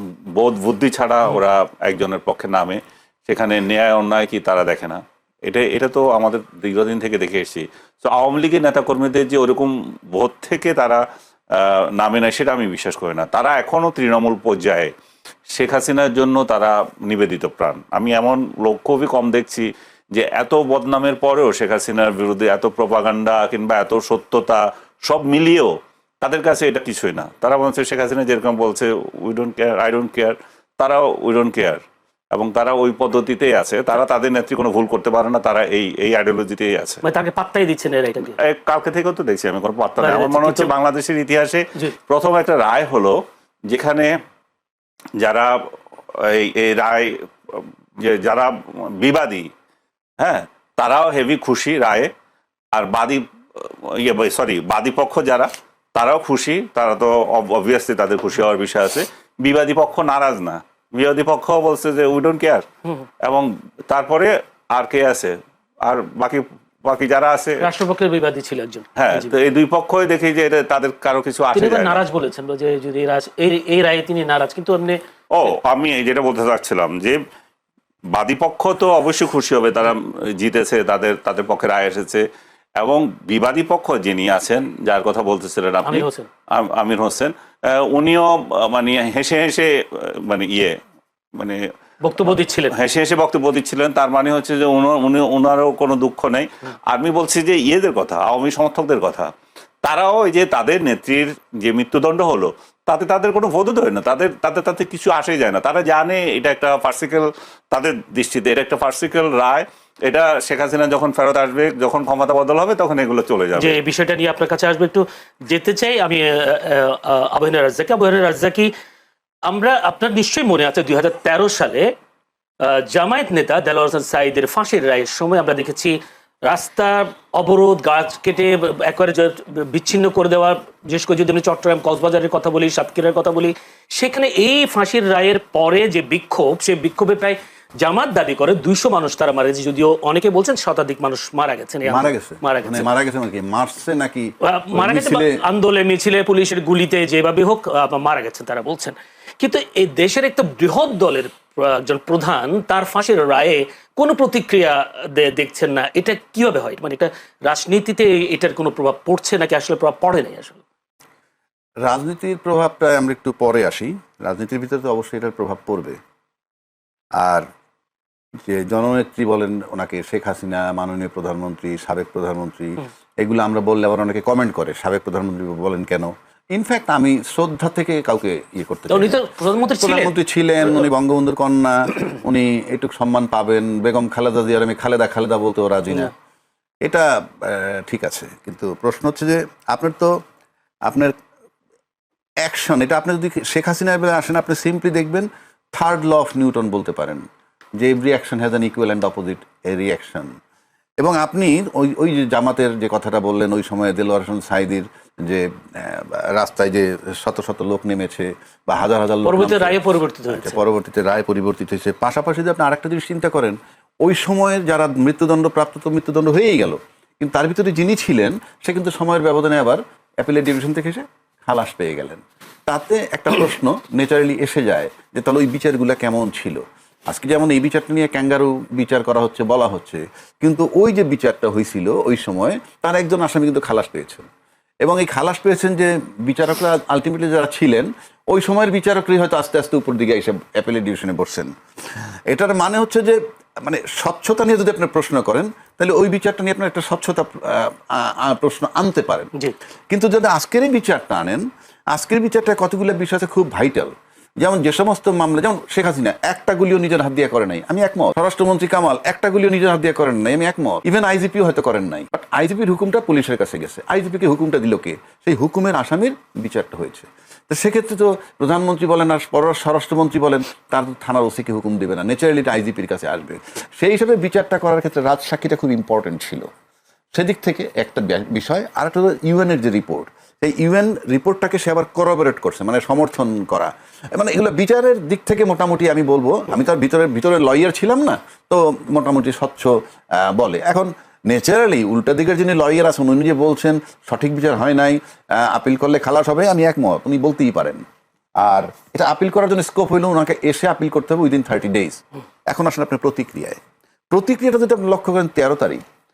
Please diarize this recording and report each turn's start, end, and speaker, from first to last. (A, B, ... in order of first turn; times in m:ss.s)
0:00.3-0:14.9 A
0:15.5-0:31.8 A
0:32.3-0:37.0 A
0:37.0-0:38.4 B
0:38.3-0:44.1 A
0:40.0-0:40.7 B
0:45.2-0:45.6 A
0:46.1-0:49.5 A
0:50.2-0:52.1 A
0:52.7-1:02.6 A
1:03.2-1:07.6 A
1:07.6-1:09.4 B
1:09.0-1:12.0 A
1:11.6-1:15.0 B
1:15.3-1:17.2 A
1:18.1-1:22.2 A
1:22.8-1:30.8 A
1:25.9-1:26.3 B
1:31.4-1:31.6 A
1:32.0-1:32.7 B
1:32.2-1:39.3 A
1:39.8-1:53.8 A
1:53.6-1:58.7 B
1:59.5-2:01.9 B
2:02.6-2:22.9 B
2:21.8-2:25.4 C
2:24.5-2:40.6 B
2:41.9-2:46.0 C
2:47.2-2:47.5 C
2:48.4-2:59.2 C
2:58.9-3:00.1 B
2:59.8-3:06.1 C
3:06.9-3:10.1 C
3:10.9-3:11.1 C
3:12.4-3:17.2 C
3:17.8-3:20.3 C
3:21.0-3:54.3 C
3:29.3-3:30.6 B
3:54.8-4:01.5 C
4:02.3-4:09.3 C
4:09.9-4:36.5 C
4:37.2-4:57.8 C
4:58.4-5:03.6 C
5:04.1-5:05.8 C